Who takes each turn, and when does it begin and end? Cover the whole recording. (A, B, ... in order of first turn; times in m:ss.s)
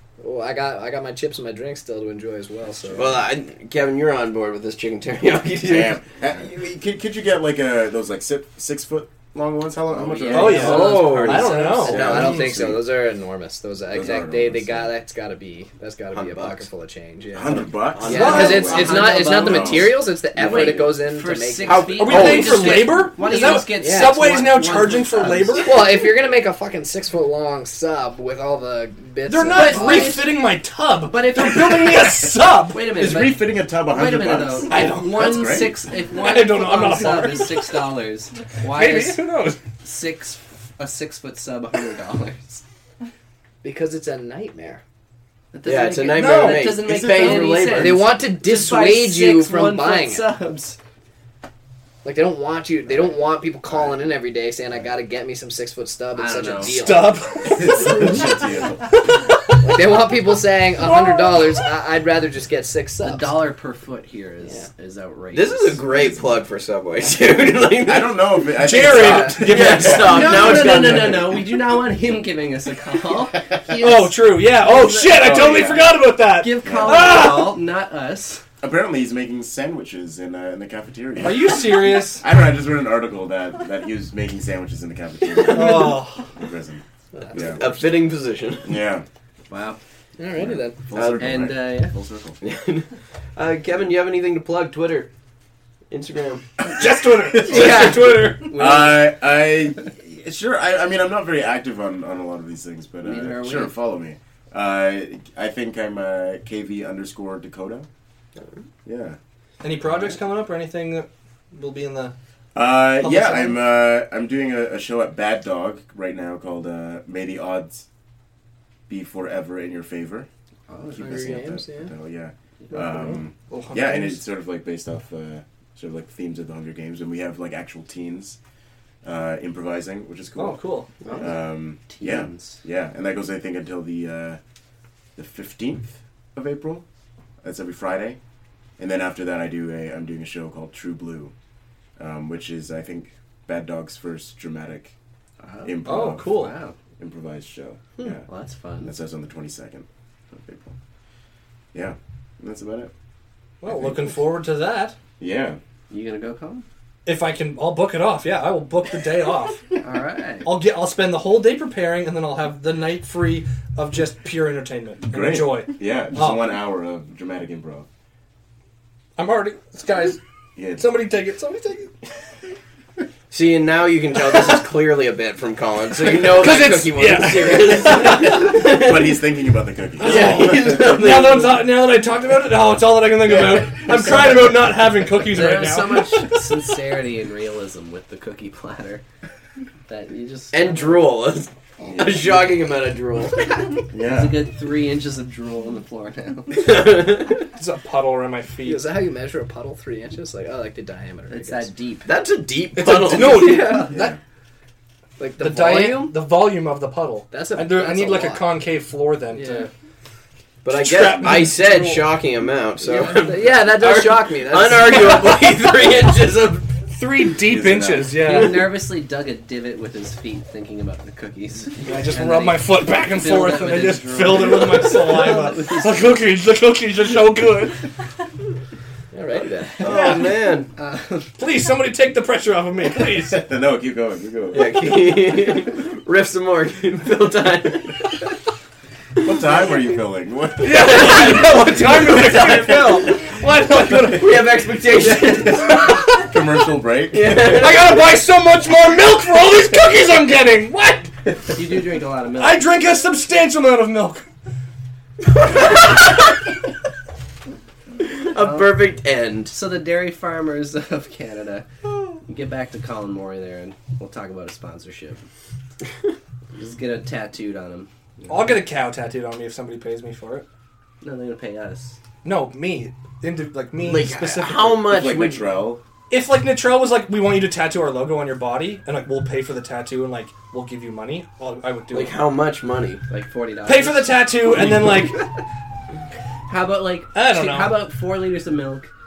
0:00.2-0:03.2 A
0:03.0-0:06.0 B
0:05.6-0:10.9 C
0:09.9-0:11.9 D
0:10.3-0:12.4 B
0:10.3-0:12.2 E
0:11.3-0:22.2 A
0:11.9-0:12.9 C
0:13.9-0:14.9 C
0:16.1-0:16.7 B
0:17.3-0:21.0 C
0:17.9-0:19.1 B
0:18.1-0:18.6 E
0:18.1-0:25.7 D
0:21.6-0:22.8 B
0:21.8-0:25.9 E
0:23.2-0:24.1 A
0:25.6-0:30.2 A
0:29.3-0:32.8 E
0:29.5-0:30.3 D
0:31.1-0:39.2 D
0:32.8-0:35.7 C
0:34.7-0:37.8 E
0:38.7-0:39.6 E
0:39.8-0:42.6 D
0:43.6-0:44.8 A
0:45.5-0:50.8 D
0:45.6-0:48.1 B
0:46.2-0:46.7 E
0:46.7-0:47.4 C
0:47.7-0:50.3 A
0:52.0-0:57.3 A
0:56.2-0:57.0 D
0:56.6-0:58.2 E
0:57.4-0:59.0 C
0:59.6-1:03.4 A
1:00.8-1:01.6 E
1:03.0-1:05.8 D
1:05.3-1:08.3 B
1:05.9-1:06.2 C
1:07.8-1:11.3 C
1:08.6-1:10.7 E
1:08.9-1:09.4 A
1:09.4-1:11.4 B
1:09.8-1:15.6 D
1:13.7-1:17.6 E
1:15.1-1:16.0 C
1:16.4-1:18.4 D
1:16.6-1:17.1 C
1:18.6-1:27.8 C
1:21.2-1:22.2 E
1:25.5-1:26.3 E
1:25.7-1:26.0 B
1:27.1-1:27.7 A
1:27.3-1:28.7 B
1:28.6-1:29.1 C
1:29.5-1:29.8 D
1:30.2-1:30.8 A
1:30.4-1:32.4 C
1:30.9-1:31.4 B
1:31.2-1:32.0 D
1:32.4-1:35.1 B
1:35.9-1:36.5 B
1:36.7-1:38.5 E
1:36.8-1:47.9 C
1:37.5-1:38.2 A
1:38.4-1:39.1 D
1:43.0-1:43.8 D
1:48.9-1:49.2 C
1:49.6-1:52.1 E
1:52.6-1:57.8 C
1:53.1-1:53.5 D
1:58.9-2:00.3 C
2:00.7-2:01.4 D
2:00.9-2:08.4 C
2:01.0-2:01.9 A
2:03.5-2:04.2 E
2:09.0-2:10.6 C
2:10.4-2:10.9 E
2:11.1-2:12.6 D
2:11.2-2:14.4 C
2:15.2-2:16.8 C
2:17.4-2:18.2 C
2:18.8-2:21.3 C
2:22.0-2:25.0 C
2:25.4-2:26.8 D
2:25.6-2:26.4 C
2:25.8-2:26.5 E
2:27.0-2:28.2 C
2:28.3-2:28.9 D
2:28.8-2:30.8 C
2:31.7-2:32.9 C
2:33.6-2:35.0 E
2:33.7-2:34.0 C
2:35.2-2:35.6 C
2:35.9-2:36.7 D
2:37.1-2:39.6 E
2:39.8-2:40.5 D
2:40.4-2:46.6 E
2:45.1-2:47.9 C
2:49.2-2:50.2 E
2:50.6-2:51.0 C
2:50.8-2:51.9 E
2:53.3-2:59.2 B
2:56.2-2:58.6 E
2:58.0-3:00.9 C
3:00.0-3:06.6 E
3:00.0-3:01.7 B
3:05.2-3:09.0 D
3:09.9-3:11.1 D
3:10.5-3:13.5 B
3:13.9-3:14.4 C
3:13.9-3:16.7 D
3:16.5-3:17.4 B
3:17.6-3:18.9 E
3:18.6-3:21.7 A
3:21.3-3:22.1 D
3:22.0-3:23.6 B
3:22.8-3:24.2 E
3:23.2-3:23.9 A
3:23.9-3:24.2 C
3:25.2-3:26.2 A
3:25.4-3:29.7 E
3:27.3-3:28.6 A
3:29.3-3:29.7 A
3:30.6-3:36.7 B
3:30.7-3:32.1 E
3:32.8-3:35.4 A
3:36.9-3:38.8 E
3:37.4-3:38.2 C
3:38.2-3:46.1 D
3:41.8-3:47.9 E
3:49.1-3:49.8 A
3:49.8-3:50.7 B
3:49.8-3:50.3 E
3:50.8-3:51.4 D
3:51.4-3:53.4 E
3:53.3-3:54.7 C
3:54.5-3:58.2 B
3:59.2-4:01.0 C
4:00.6-4:04.7 E
4:00.6-4:03.3 B
4:03.9-4:06.0 B
4:05.2-4:06.1 E
4:05.7-4:07.4 C
4:07.1-4:08.0 B
4:07.4-4:11.1 E
4:11.6-4:12.7 D
4:12.4-4:14.2 E
4:15.6-4:16.0 B
4:18.2-4:19.5 B
4:18.4-4:18.7 D
4:19.5-4:21.7 D
4:22.2-4:25.2 D
4:26.5-4:28.6 D
4:28.3-4:30.5 E
4:31.0-4:32.0 D
4:32.2-4:35.0 E
4:33.8-4:35.5 B
4:34.9-4:35.8 C
4:36.1-4:42.2 E
4:41.9-4:43.0 B
4:43.1-4:45.4 D
4:43.6-4:45.2 E
4:46.5-4:48.9 D
4:47.2-4:47.8 E